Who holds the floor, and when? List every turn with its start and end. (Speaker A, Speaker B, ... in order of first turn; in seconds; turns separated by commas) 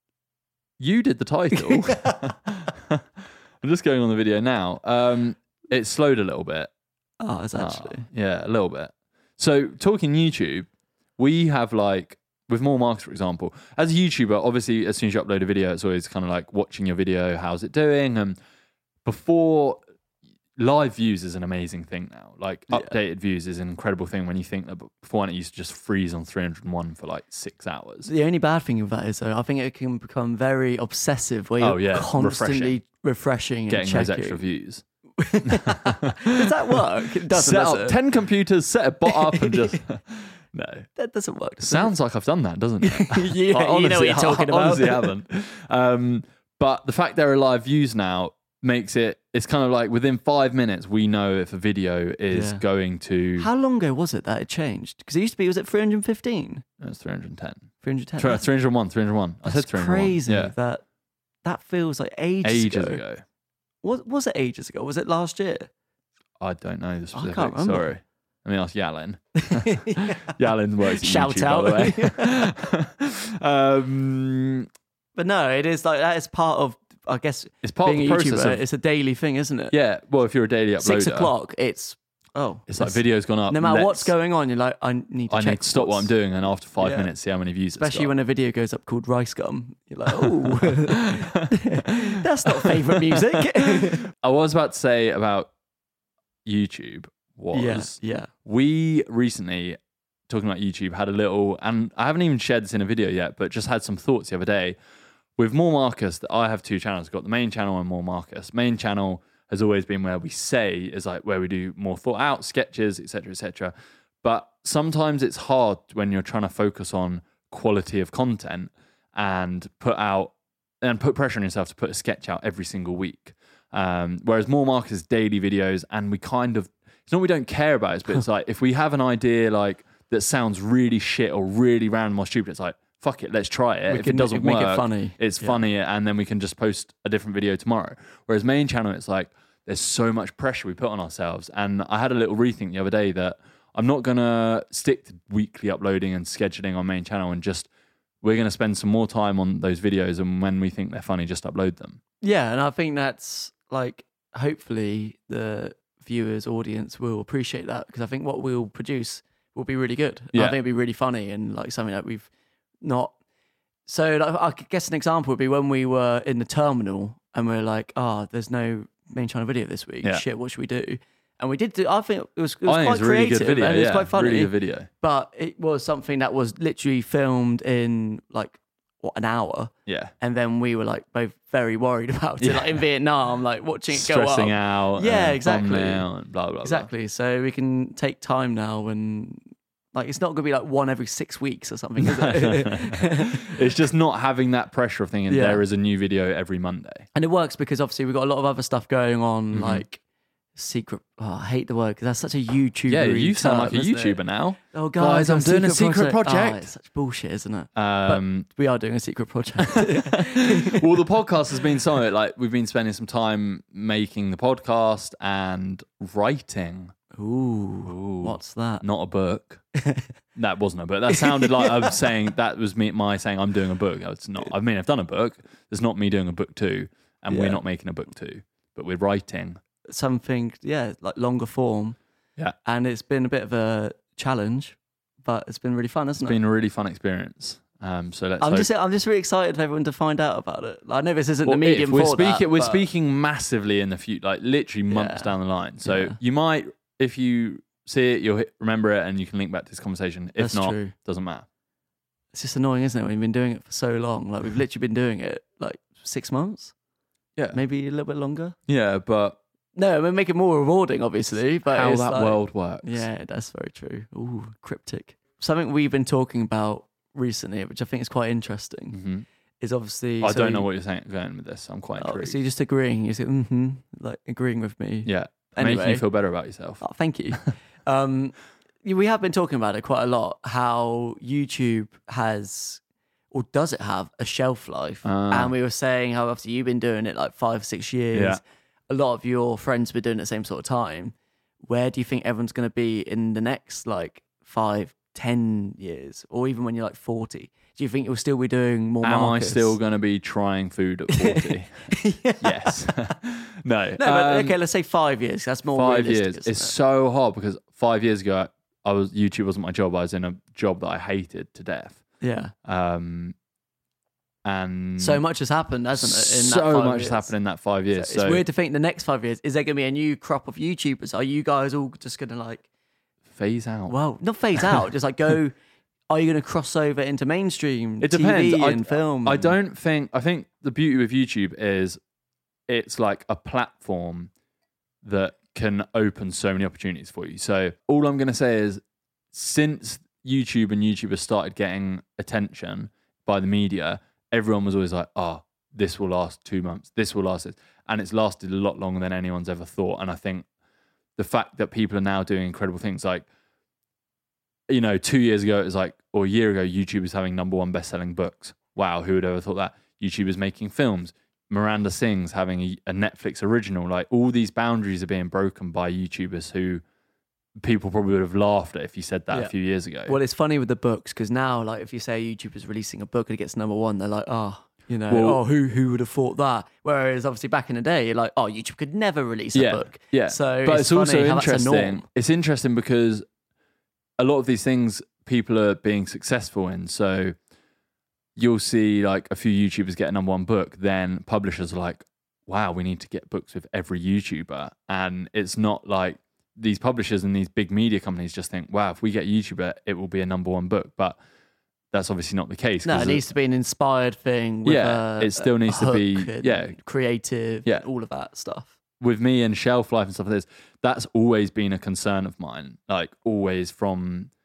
Speaker A: 0.8-3.1, Speaker B: 1.5-2.2, Speaker A: 3.6-6.7, Speaker B: 7.2-8.1, Speaker A: 7.5-18.4, Speaker A: 19.1-19.8, Speaker A: 20.6-28.1, Speaker B: 28.0-34.4, Speaker A: 31.6-32.8, Speaker A: 33.7-34.8, Speaker B: 35.2-38.0, Speaker A: 35.5-40.9, Speaker B: 39.1-39.8, Speaker B: 41.0-41.9, Speaker A: 41.6-53.5, Speaker B: 42.8-45.1, Speaker B: 52.3-52.6, Speaker B: 53.4-56.6, Speaker A: 56.8-60.5, Speaker B: 57.8-58.5, Speaker B: 59.4-60.8, Speaker B: 61.4-63.0, Speaker A: 62.4-63.2, Speaker B: 63.8-65.7, Speaker A: 66.4-74.7, Speaker B: 67.1-67.9, Speaker B: 69.4-70.3, Speaker B: 71.0-72.5, Speaker B: 75.2-79.8, Speaker A: 77.6-78.6, Speaker A: 79.7-81.3, Speaker B: 80.8-86.1, Speaker A: 82.7-84.1, Speaker A: 85.3-88.1, Speaker B: 86.8-87.1, Speaker B: 87.8-94.0, Speaker A: 90.1-91.2, Speaker A: 92.7-95.5, Speaker A: 96.5-99.8, Speaker B: 97.5-98.3, Speaker A: 100.3-104.8, Speaker A: 105.4-147.7, Speaker B: 133.9-135.6, Speaker A: 148.2-152.0, Speaker B: 152.2-162.3, Speaker B: 162.8-163.1, Speaker B: 163.9-186.1, Speaker A: 172.7-174.9, Speaker A: 179.9-180.1, Speaker A: 182.4-182.8, Speaker A: 183.9-186.9, Speaker B: 186.6-193.6, Speaker A: 192.0-197.1, Speaker B: 195.3-195.6, Speaker B: 197.1-200.0, Speaker A: 199.5-199.8, Speaker B: 200.6-210.8, Speaker A: 202.9-206.7, Speaker A: 207.8-208.5, Speaker A: 209.7-216.9, Speaker B: 217.1-218.8, Speaker A: 217.9-219.6, Speaker A: 220.4-229.6, Speaker B: 221.1-221.9, Speaker B: 227.3-227.6, Speaker B: 229.9-232.0, Speaker B: 232.7-236.4, Speaker A: 236.2-238.7, Speaker B: 238.4-242.9, Speaker A: 241.4-251.5, Speaker B: 244.9-246.2, Speaker B: 250.4-250.9, Speaker B: 252.3-256.7, Speaker B: 257.5-258.6, Speaker A: 258.7-259.4, Speaker B: 259.8-269.0, Speaker A: 261.7-263.1, Speaker A: 268.9-269.3, Speaker B: 269.6-270.7, Speaker A: 270.2-272.4, Speaker B: 272.0-276.1, Speaker A: 275.1-276.8, Speaker B: 276.8-282.8, Speaker B: 283.3-299.8, Speaker A: 285.0-285.5, Speaker A: 288.1-288.4, Speaker A: 299.0-304.6, Speaker B: 301.1-302.8, Speaker B: 304.0-306.8, Speaker A: 305.7-312.0, Speaker B: 312.2-312.5, Speaker A: 312.6-313.4, Speaker A: 314.4-315.2, Speaker B: 315.0-317.3, Speaker A: 316.0-318.4, Speaker B: 317.9-322.6, Speaker A: 323.3-324.0, Speaker B: 323.9-325.5, Speaker B: 326.1-329.6, Speaker A: 328.0-332.0, Speaker A: 332.7-334.3, Speaker A: 335.0-338.8, Speaker A: 339.3-350.5, Speaker A: 351.2-353.3, Speaker A: 354.7-366.8, Speaker A: 367.6-370.2, Speaker B: 370.1-382.1, Speaker A: 375.1-375.4, Speaker A: 379.5-383.2, Speaker A: 384.2-387.4, Speaker A: 388.4-401.2, Speaker A: 401.9-403.3, Speaker B: 402.8-408.7, Speaker A: 404.6-406.8, Speaker A: 409.0-414.3